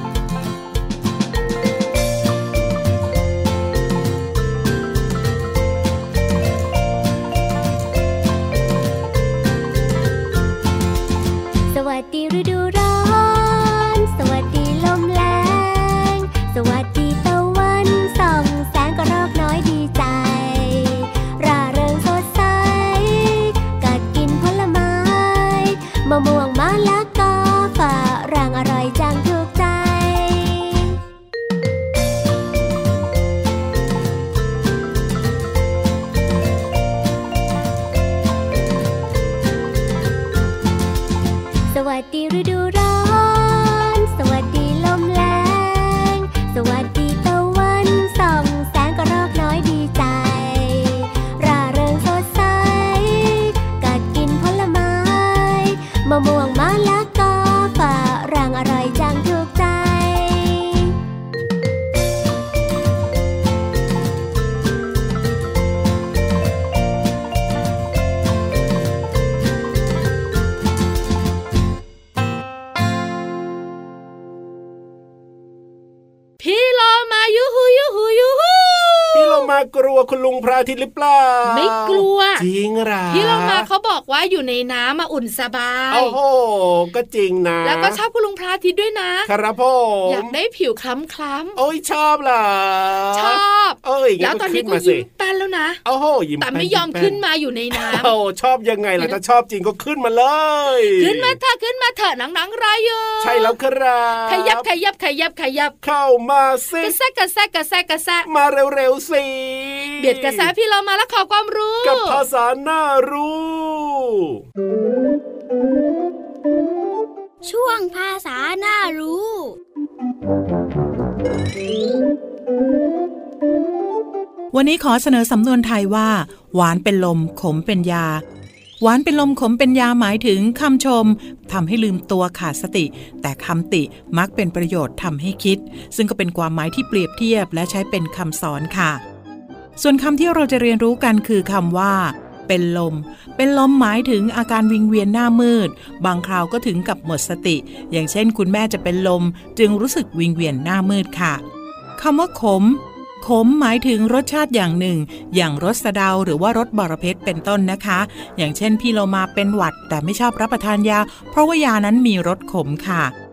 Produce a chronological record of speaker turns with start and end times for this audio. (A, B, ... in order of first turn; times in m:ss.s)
0:11.7-0:31.0 A
0:41.7-1:01.0 A
1:16.4-1:19.5 B
1:19.1-1:23.7 C
1:21.4-1:22.5 B
1:23.1-1:26.2 B
1:25.9-1:28.0 C
1:27.6-1:29.3 B
1:29.3-1:30.3 C
1:30.1-1:31.6 B
1:31.6-1:35.1 C
1:33.1-1:35.8 B
1:35.8-1:37.2 C
1:36.4-1:38.1 B
1:37.7-1:41.4 C
1:40.9-1:43.6 B
1:43.2-1:44.7 C
1:44.3-1:45.8 B
1:45.8-1:47.0 C
1:46.8-1:48.3 B
1:48.3-1:50.5 C
1:50.0-1:52.2 B
1:51.8-1:54.4 C
1:57.5-1:59.4 D
2:04.5-2:08.2 E
2:08.8-2:19.0 E
2:19.8-2:31.4 E
2:32.0-2:43.1 E